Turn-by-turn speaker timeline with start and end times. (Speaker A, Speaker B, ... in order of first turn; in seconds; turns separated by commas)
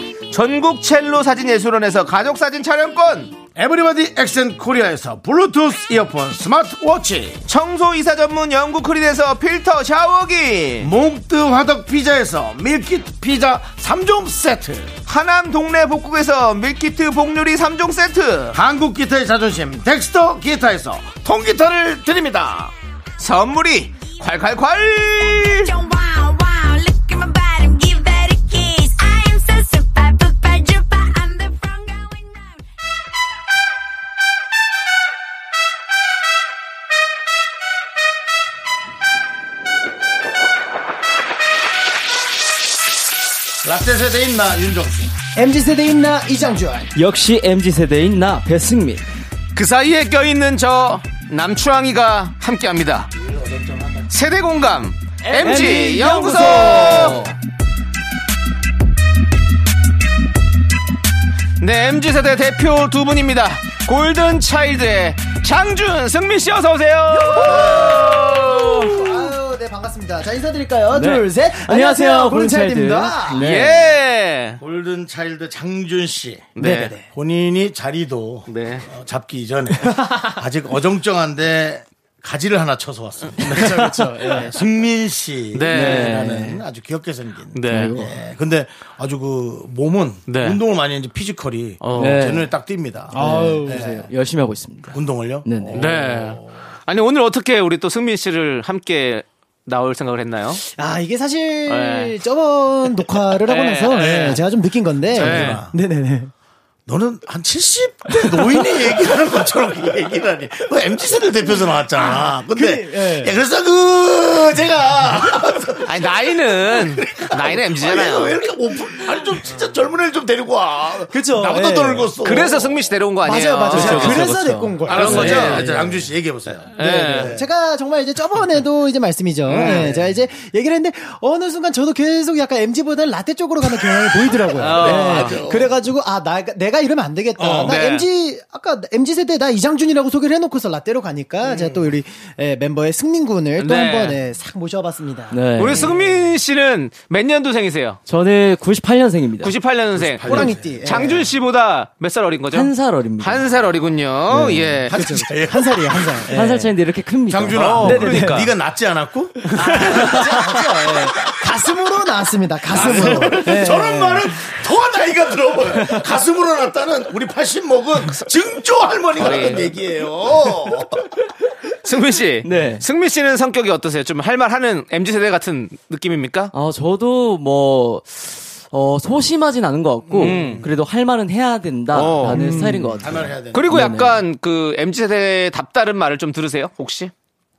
Speaker A: 0.3-3.4, Speaker B: 3.5-7.4, Speaker A: 7.5-10.9, Speaker B: 10.8-14.9, Speaker A: 15.1-18.6, Speaker B: 18.5-22.7, Speaker A: 23.2-25.7, Speaker C: 25.3-32.6, Speaker B: 43.6-45.1, Speaker D: 45.4-46.9, Speaker E: 46.9-49.0, Speaker A: 49.5-53.1, Speaker B: 53.1-54.1, Speaker A: 54.1-57.3, Speaker E: 55.2-57.2, Speaker A: 61.6-69.3, Speaker D: 67.2-73.5, Speaker B: 67.4-68.1, Speaker E: 70.9-73.9, Speaker A: 73.3-74.6, Speaker B: 74.6-94.0, Speaker A: 76.5-76.9, Speaker D: 76.6-77.1, Speaker A: 78.5-78.9, Speaker A: 83.5-83.8, Speaker D: 83.8-84.5, Speaker A: 85.5-86.3, Speaker E: 85.7-86.6, Speaker A: 87.5-88.0, Speaker E: 87.6-88.2, Speaker A: 90.3-90.6, Speaker A: 91.8-92.2, Speaker E: 91.9-92.5, Speaker E: 93.1-95.9, Speaker D: 93.1-94.0, Speaker B: 94.9-96.5, Speaker A: 95.7-100.6, Speaker D: 100.7-106.3, Speaker A: 101.7-102.1, Speaker A: 103.5-104.4, Speaker B: 104.0-104.4, Speaker B: 105.1-105.7, Speaker A: 105.1-105.6, Speaker B: 106.9-122.8, Speaker D: 111.9-113.3, Speaker A: 115.8-118.4, Speaker D: 121.1-122.1, Speaker A: 122.2-126.0, Speaker D: 123.2-125.8, Speaker B: 123.7-124.2, Speaker E: 123.8-125.6, Speaker B: 124.8-127.5, Speaker A: 126.8-127.3, Speaker D: 126.8-145.4, Speaker A: 129.5-129.9, Speaker B: 129.6-130.0, Speaker A: 134.6-135.4, Speaker B: 134.6-135.8, Speaker B: 137.4-137.7, Speaker A: 137.4-138.1, Speaker B: 141.4-141.8, Speaker A: 143.6-144.2, Speaker E: 145.3-145.9, Speaker A: 145.6-148.0, Speaker E: 148.1-149.6, Speaker A: 149.4-155.0, Speaker B: 149.9-151.1, Speaker D: 150.2-151.3, Speaker E: 152.5-153.5, Speaker E: 154.3-154.9, Speaker D: 154.9-156.6, Speaker B: 154.9-156.7, Speaker E: 156.3-158.4, Speaker B: 157.3-160.6, Speaker A: 157.5-158.4, Speaker D: 157.8-158.5, Speaker D: 159.5-164.3, Speaker E: 159.9-160.3, Speaker B: 162.7-171.1, Speaker A: 169.2-169.7, Speaker A: 171.8-176.5, Speaker E: 172.4-172.8, Speaker E: 176.5-184.2, Speaker B: 180.1-180.7, Speaker A: 180.2-180.7, Speaker A: 181.9-182.4, Speaker D: 182.3-183.0, Speaker B: 183.0-183.7, Speaker A: 183.5-187.1